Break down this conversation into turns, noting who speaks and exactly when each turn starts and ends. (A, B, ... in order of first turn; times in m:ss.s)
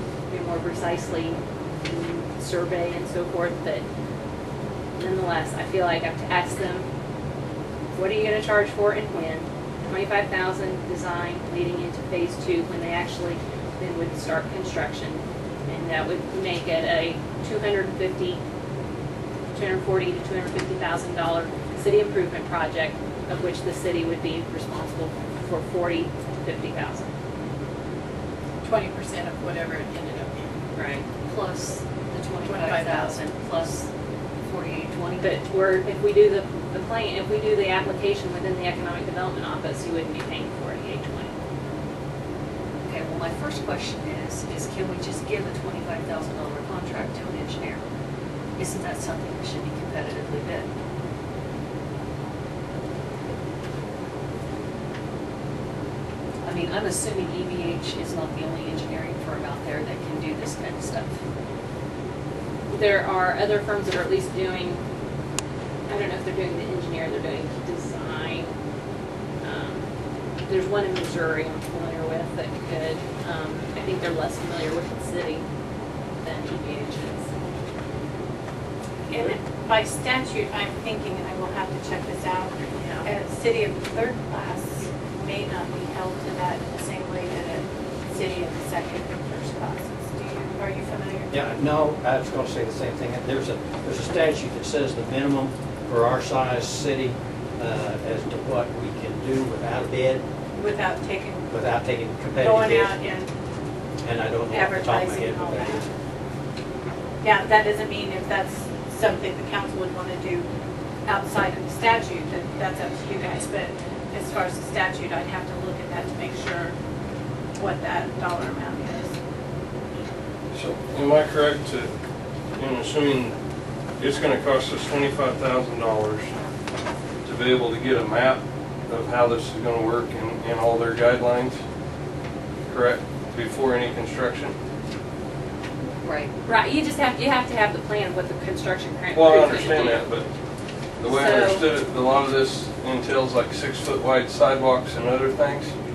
0:00.3-0:03.8 A
0:05.0-0:06.9 A
0:08.0-0:18.4 A
0:19.5-0:27.1 A
0:28.6-0:30.3 B
0:30.8-0:31.1 A
0:31.3-0:33.9 C
0:32.4-0:33.2 B
0:34.4-0:35.4 C
0:35.2-0:41.3 A
0:42.8-0:47.8 C
0:48.6-0:50.7 C
0:56.4-1:01.2 C
1:02.7-1:04.8 A
1:05.9-1:08.5 A
1:09.4-1:09.9 A
1:10.5-1:15.4 A
1:16.2-1:17.3 A
1:19.1-1:22.5 B
1:22.8-1:23.1 A
1:23.0-1:31.5 B
1:31.3-1:40.2 D
1:40.6-1:41.7 B
1:41.5-1:43.2 D
1:42.4-1:43.3 B
1:44.0-1:45.9 D
1:44.5-1:45.9 B
1:47.2-1:50.5 B
1:51.1-1:56.8 B
1:57.6-1:59.2 B
2:00.5-2:01.9 E
2:02.6-2:03.4 E
2:04.0-2:06.4 E
2:07.2-2:11.6 E
2:12.7-2:14.6 E
2:16.0-2:16.3 C
2:16.4-2:20.1 A
2:19.1-2:20.3 E
2:21.0-2:25.7 E
2:21.1-2:21.7 A